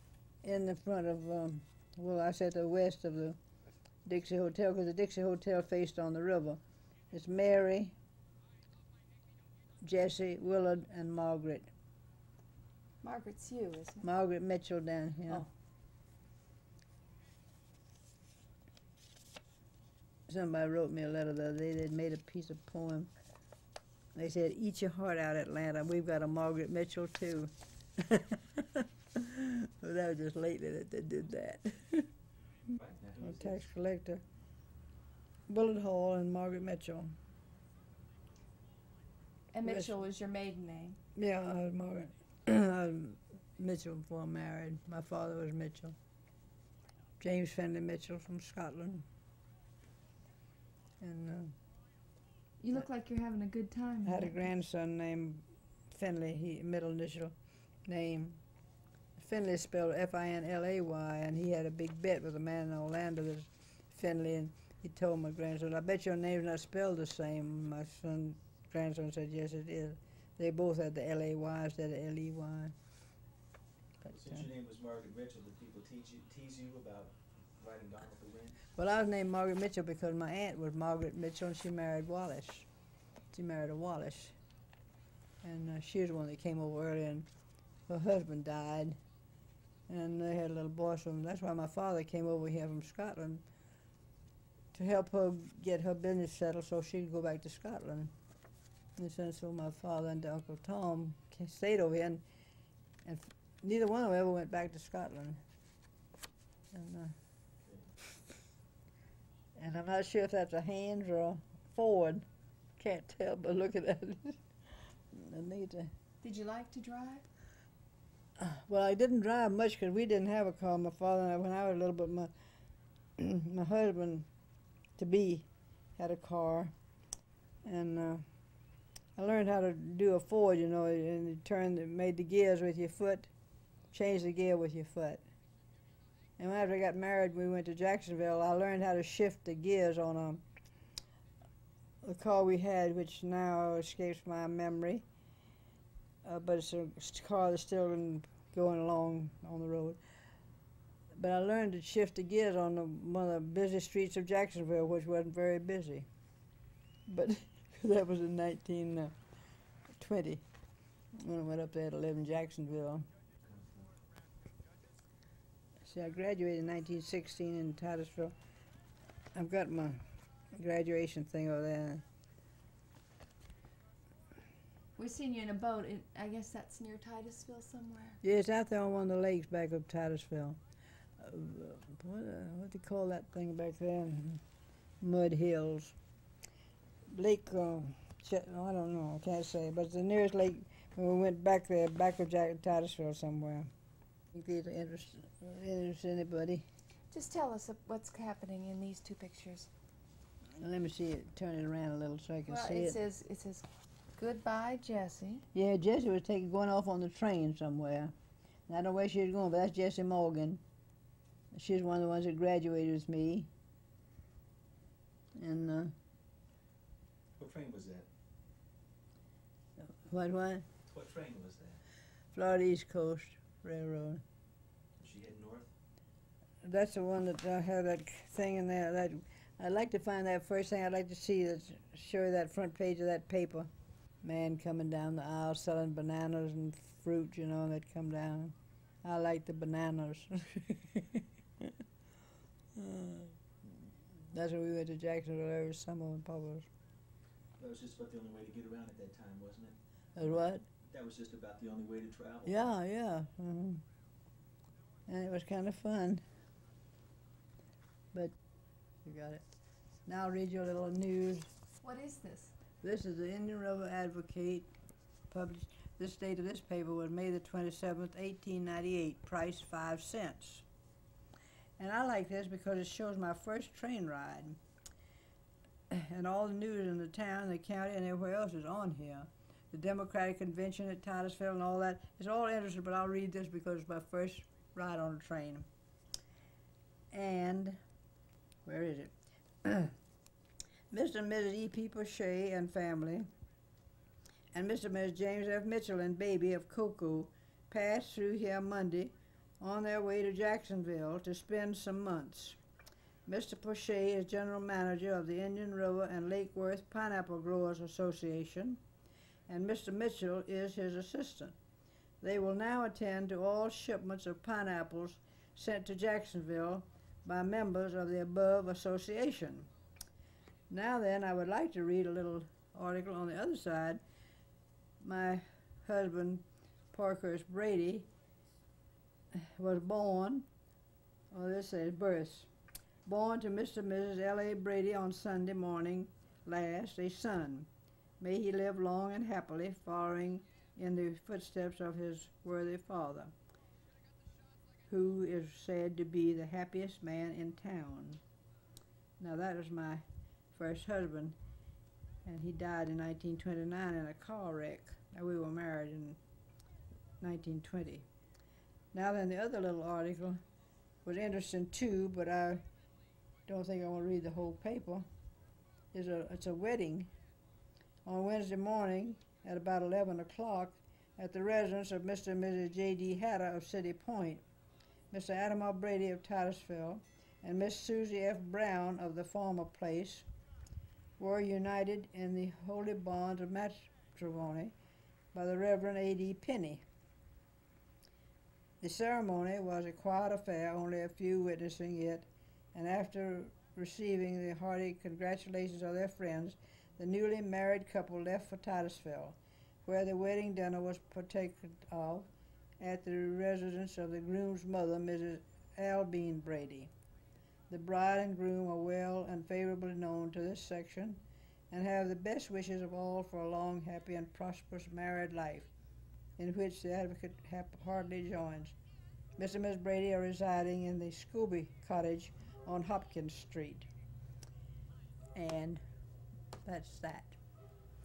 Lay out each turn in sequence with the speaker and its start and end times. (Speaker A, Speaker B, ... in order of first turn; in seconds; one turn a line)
Speaker A: 0.4-3.4
Speaker A: 4.0-8.0
Speaker A: 9.8-11.7
Speaker B: 13.0-14.1
Speaker A: 14.0-15.4
Speaker A: 20.3-23.1
Speaker A: 24.1-32.1
Speaker C: 32.7-33.6
Speaker A: 33.2-34.2
Speaker A: 35.5-37.1
Speaker B: 39.5-41.0
Speaker A: 39.6-39.9
Speaker A: 41.1-46.0
Speaker A: 47.2-49.0
Speaker A: 51.0-51.5
Speaker B: 52.6-54.4
Speaker A: 54.0-57.3
Speaker A: 57.9-58.4
Speaker A: 59.1-72.7
Speaker A: 74.0-74.4
Speaker C: 74.0-78.6
Speaker A: 78.8-82.7
Speaker A: 83.3-84.3
Speaker A: 85.4-87.3
Speaker A: 87.9-89.0
Speaker A: 89.9-93.4
Speaker A: 94.7-98.1
Speaker A: 99.0-102.2
Speaker A: 103.0-105.4
Speaker A: 106.7-107.1
Speaker C: 107.6-107.9
Speaker A: 109.5-112.2
Speaker A: 112.8-115.9
Speaker B: 116.2-117.2
Speaker A: 118.4-122.3
Speaker A: 123.2-124.3
Speaker A: 125.0-126.7
Speaker A: 127.6-128.2
Speaker A: 129.2-133.3
Speaker A: 133.9-135.2
Speaker A: 136.4-140.4
Speaker A: 142.0-145.0
Speaker A: 146.2-150.0
Speaker A: 151.1-156.1
Speaker A: 157.1-159.1
Speaker A: 160.0-160.4
Speaker A: 161.1-163.1
Speaker C: 163.4-163.9
Speaker A: 165.8-168.3
Speaker A: 169.3-172.0
Speaker B: 175.0-178.2
Speaker A: 178.2-180.6
Speaker A: 181.2-184.4
Speaker A: 185.0-185.9
Speaker A: 187.1-193.7
Speaker A: 194.3-196.6
Speaker B: 197.1-199.7
Speaker A: 200.6-203.0
Speaker B: 202.5-205.4
Speaker A: 205.5-208.1
Speaker A: 208.7-210.6
Speaker A: 211.5-213.5
Speaker A: 215.3-215.9
Speaker C: 217.4-218.1
Speaker A: 219.8-220.7
Speaker C: 220.8-221.8
Speaker A: 222.3-224.2
Speaker C: 225.0-225.7
Speaker A: 226.6-233.7
Speaker A: 234.2-241.8
Speaker A: 242.7-243.7
Speaker A: 244.3-246.7
Speaker C: 247.6-252.6
Speaker A: 250.2-250.7
Speaker A: 252.4-253.8
Speaker A: 255.1-256.2
Speaker A: 259.0-259.4
Speaker A: 260.1-261.5
Speaker B: 261.8-262.5
Speaker A: 262.8-264.7
Speaker A: 265.3-270.6
Speaker A: 271.8-274.6
Speaker A: 275.9-285.7
Speaker A: 287.1-287.8
Speaker A: 288.6-289.9
Speaker A: 290.9-293.3
Speaker A: 294.5-302.6
Speaker A: 303.2-308.8
Speaker A: 309.5-311.5
Speaker A: 312.2-319.7
Speaker A: 320.7-324.0
Speaker A: 325.0-328.1
Speaker A: 329.3-330.5
Speaker A: 331.3-332.5
Speaker A: 333.0-337.7
Speaker A: 338.2-343.3
Speaker A: 344.9-348.2
Speaker A: 349.2-351.4
Speaker A: 352.2-356.2
Speaker A: 357.2-358.1
Speaker A: 358.9-360.4
Speaker A: 361.0-362.6
Speaker A: 363.5-365.1
Speaker A: 365.9-367.1
Speaker A: 368.0-374.4
Speaker A: 375.1-380.3
Speaker A: 381.2-384.7
Speaker A: 385.3-386.8
Speaker A: 388.8-402.3
Speaker A: 402.8-406.9
Speaker A: 407.7-415.7
Speaker A: 416.4-418.7
Speaker A: 419.4-423.9
Speaker A: 425.3-425.8
Speaker A: 426.6-427.4